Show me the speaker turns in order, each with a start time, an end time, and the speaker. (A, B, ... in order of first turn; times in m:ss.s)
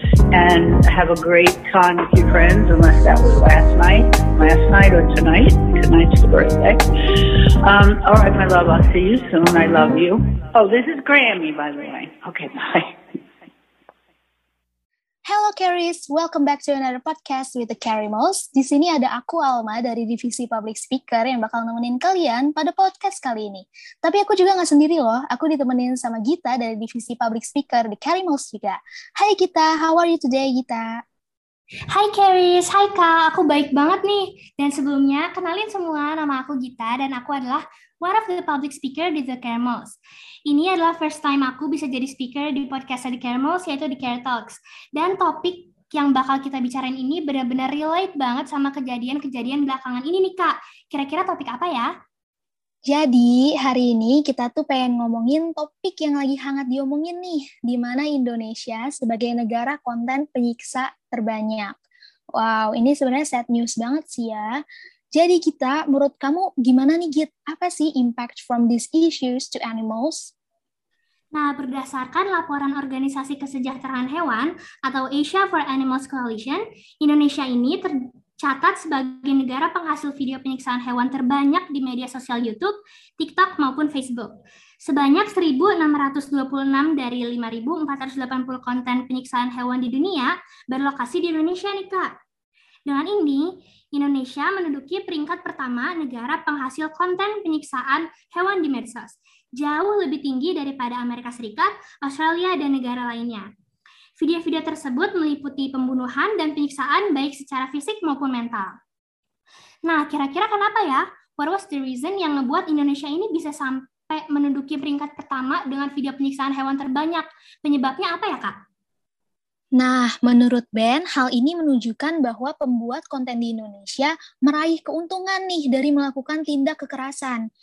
0:00.3-0:06.8 A
0:07.6-0:12.9 A
0:15.3-0:31.0 B
0:31.9-0:51.9 C
0:52.9-1:01.7 B
1:02.4-1:04.6 B
1:05.1-1:10.3 B
1:11.3-1:32.1 C
1:32.9-1:43.5 C
1:44.2-1:48.8 C
1:49.8-1:58.6 C
1:59.8-2:07.4 B